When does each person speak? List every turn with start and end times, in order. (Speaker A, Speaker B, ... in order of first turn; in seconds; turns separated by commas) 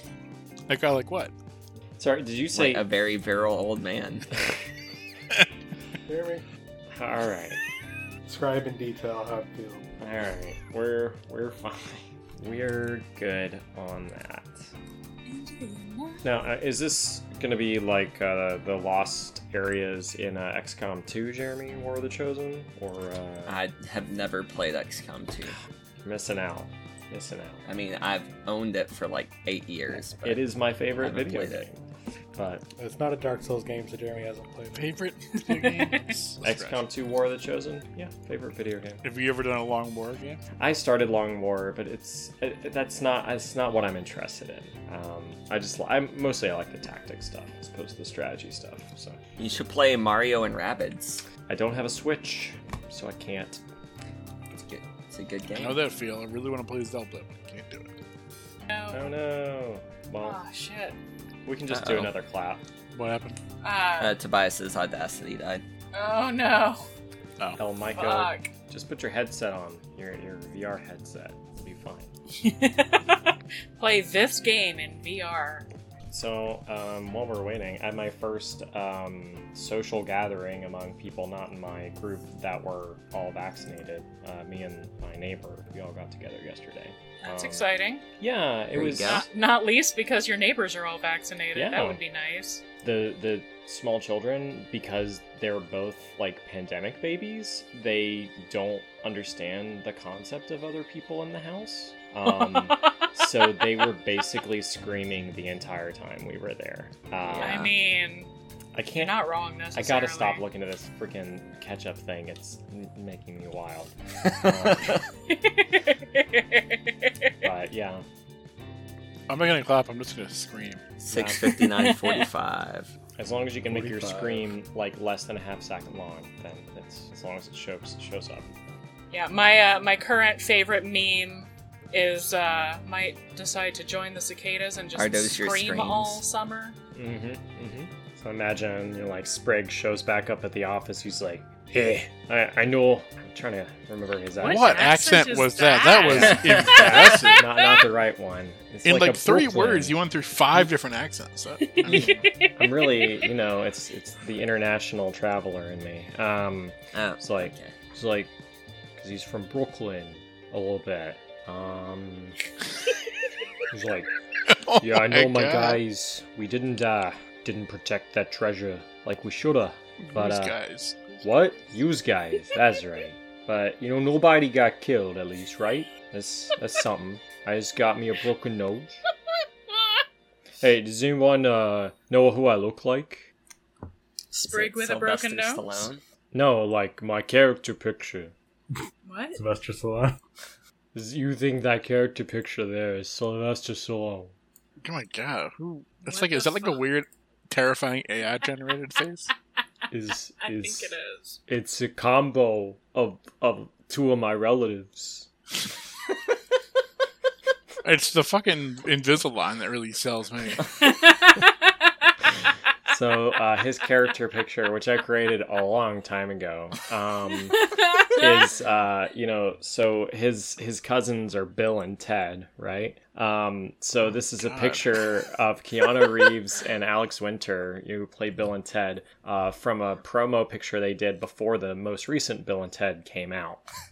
Speaker A: 0.7-1.3, Speaker B: 2.0-2.9, Speaker C: 2.5-4.3, Speaker D: 6.1-6.4, Speaker B: 6.9-7.6, Speaker D: 8.3-9.8, Speaker B: 10.0-14.7, Speaker E: 15.2-16.2, Speaker B: 16.2-23.6, Speaker C: 23.4-25.6, Speaker B: 26.0-27.6, Speaker C: 27.6-30.4, Speaker B: 30.0-31.8, Speaker C: 30.9-31.6, Speaker B: 32.4-32.6, Speaker D: 32.8-34.9, Speaker A: 34.7-36.8, Speaker E: 35.4-36.1, Speaker B: 36.4-39.0, Speaker A: 39.0-40.4, Speaker B: 40.6-49.2, Speaker C: 49.4-51.2, Speaker B: 51.5-53.6, Speaker C: 54.5-55.8, Speaker A: 55.5-57.9, Speaker E: 58.7-59.1, Speaker B: 58.9-60.4, Speaker E: 60.2-61.0, Speaker B: 61.4-62.6, Speaker C: 61.7-62.1, Speaker A: 62.9-63.4, Speaker E: 63.6-64.2, Speaker C: 64.0-65.6, Speaker E: 65.9-66.8, Speaker B: 67.5-72.1, Speaker E: 67.9-68.5, Speaker E: 72.4-75.7, Speaker B: 76.1-89.2, Speaker E: 87.2-88.0, Speaker C: 88.7-89.3, Speaker E: 89.0-92.6, Speaker B: 91.5-92.0, Speaker B: 92.8-107.7, Speaker C: 107.2-107.7, Speaker E: 107.4-108.3, Speaker B: 108.7-109.2, Speaker E: 109.0-110.4, Speaker B: 109.7-115.0, Speaker C: 114.7-115.0, Speaker E: 115.3-117.3, Speaker B: 117.4-118.0, Speaker A: 119.3-120.9, Speaker C: 121.0-122.9, Speaker B: 121.1-121.6, Speaker E: 121.4-122.2, Speaker B: 123.2-128.5, Speaker D: 123.7-124.5, Speaker E: 129.1-136.8, Speaker C: 134.9-136.2, Speaker B: 136.9-145.0, Speaker E: 144.4-147.8, Speaker A: 144.4-147.5, Speaker B: 146.1-150.0, Speaker A: 148.8-151.8, Speaker E: 151.6-153.2, Speaker B: 151.8-158.3, Speaker C: 156.9-157.7, Speaker B: 159.0-162.4, Speaker B: 163.7-164.1, Speaker A: 164.5-165.8, Speaker B: 164.8-170.6, Speaker A: 170.0-171.2, Speaker B: 171.2-178.9, Speaker B: 180.6-183.3, Speaker E: 184.3-185.9, Speaker C: 184.4-186.0, Speaker B: 186.3-188.3, Speaker E: 189.0-189.4, Speaker D: 189.3-190.2, Speaker B: 190.9-194.3, Speaker A: 194.8-199.3, Speaker E: 196.0-196.9, Speaker B: 199.9-200.9, Speaker E: 200.4-201.4, Speaker B: 201.5-205.3, Speaker A: 207.8-210.7, Speaker E: 210.8-211.7, Speaker B: 212.9-233.6, Speaker E: 217.6-218.4, Speaker A: 224.4-224.8